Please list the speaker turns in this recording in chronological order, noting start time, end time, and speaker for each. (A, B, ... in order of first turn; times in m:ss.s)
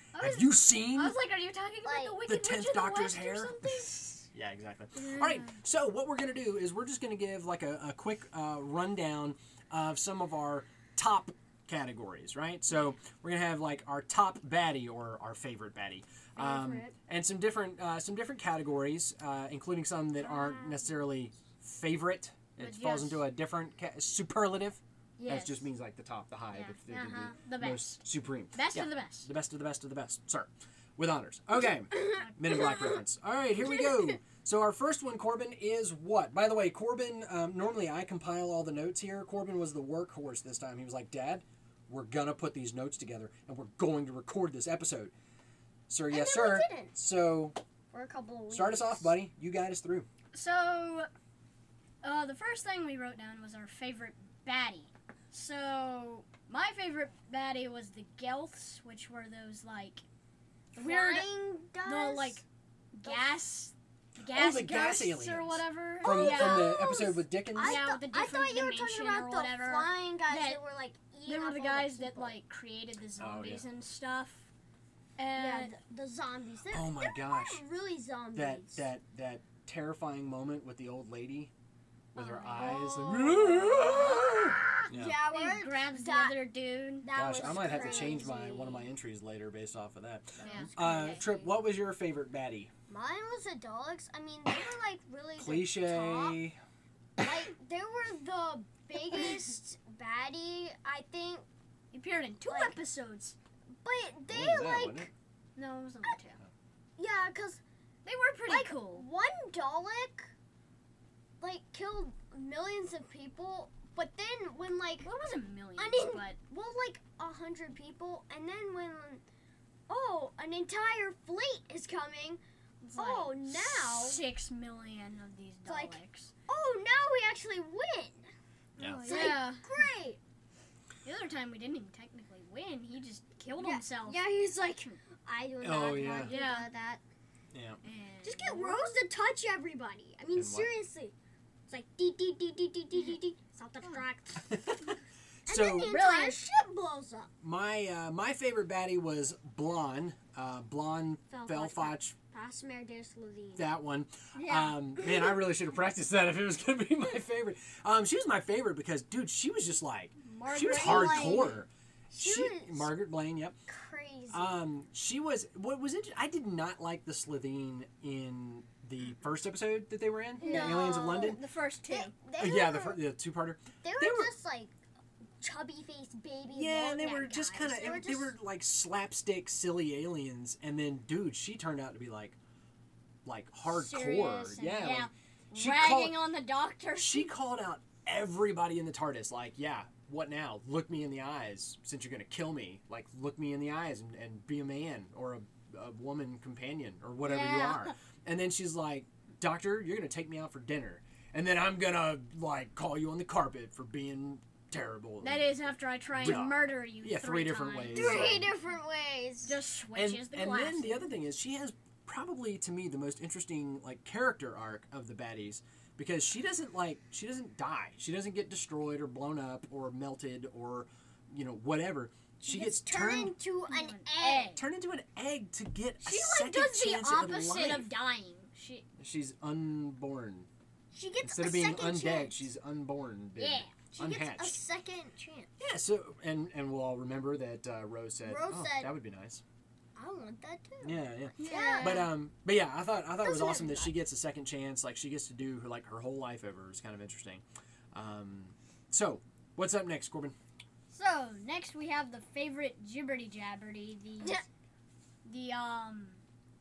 0:00.1-0:04.3 A
0:00.2-0:01.2 B
0:01.8-0:02.2 C
0:02.2-0:45.1 B
0:05.0-0:05.5 A
0:16.4-0:17.0 C
0:22.6-0:23.2 A
0:25.2-0:25.7 A
0:26.5-0:29.3 A
0:32.0-0:32.9 C
0:32.0-0:32.9 A
0:45.9-0:47.6 B
0:46.1-0:46.9 C
0:47.9-0:49.1 C
0:48.5-0:50.1 B
0:50.3-0:51.1 A
0:52.0-1:00.0 A
1:00.7-1:01.3 A
1:00.8-1:02.4 C
1:01.8-1:06.8 A
1:03.0-1:03.4 C
1:04.3-1:07.8 B
1:06.0-1:12.4 C
1:07.6-1:10.6 A
1:11.2-1:14.5 A
1:13.2-1:13.6 B
1:15.2-1:15.7 A
1:15.3-1:18.9 C
1:16.7-1:17.6 B
1:18.3-1:21.5 B
1:22.1-1:25.2 B
1:22.2-1:28.3 A
1:22.6-1:28.9 C
1:27.1-1:32.7 B
1:30.4-1:30.7 C
1:30.4-1:31.5 A
1:32.9-1:36.4 C
1:35.4-1:36.6 B
1:37.2-1:41.4 C
1:41.9-1:43.4 A
1:42.4-1:42.8 C
1:43.8-1:45.1 C
1:44.3-1:45.1 B
1:45.6-1:46.4 A
1:47.0-1:47.6 C
1:48.0-1:49.0 A
1:48.5-1:50.3 C
1:51.4-1:55.1 C
1:55.0-1:56.4 A
1:55.8-1:59.2 C
1:59.9-2:02.4 C
2:02.8-2:06.3 A
2:03.0-2:04.2 C
2:05.6-2:08.3 C
2:08.8-2:09.4 B
2:08.8-2:09.7 A
2:09.0-2:10.2 C
2:11.0-2:14.3 A
2:13.5-2:17.0 C
2:15.6-2:16.3 B
2:16.2-2:16.7 A
2:17.5-2:17.8 B
2:17.8-2:18.8 A
2:18.2-2:21.1 C
2:20.3-2:20.7 B
2:21.7-2:27.3 C
2:24.5-2:24.9 B
2:25.5-2:25.9 B
2:25.8-2:26.4 A
2:27.4-2:32.1 B
2:31.3-2:33.7 C
2:33.6-2:43.6 B
2:34.3-2:34.8 A
2:40.2-2:41.6 A
2:40.6-2:42.9 C
2:43.7-2:44.5 C
2:44.3-2:51.4 B
2:50.4-2:52.1 A
2:50.4-2:53.0 C
2:52.4-2:54.3 B
2:53.8-2:54.8 C
2:55.4-2:58.3 C
2:56.5-3:02.4 B
3:03.2-3:06.2 B
3:03.6-3:07.3 A
3:07.0-3:25.5 B
3:17.2-3:17.9 A
3:25.2-3:28.4 A
3:26.2-3:28.5 B
3:27.9-3:29.6 C
3:29.4-3:31.1 A
3:29.9-3:43.4 B
3:42.4-3:44.6 C
3:43.7-3:44.6 A
3:44.5-3:47.9 B
3:46.0-3:48.8 A
3:49.0-3:50.5 B
3:50.9-3:52.4 C
3:51.2-3:54.6 B
3:53.4-3:53.8 A
3:53.9-3:55.5 C
3:55.6-3:59.4 B
3:58.2-3:58.9 C
4:00.0-4:02.1 C
4:00.8-4:10.4 B
4:01.4-4:02.2 A
4:03.2-4:03.9 C
4:10.9-4:14.4 A
4:14.2-4:14.4 C
4:15.2-4:16.2 A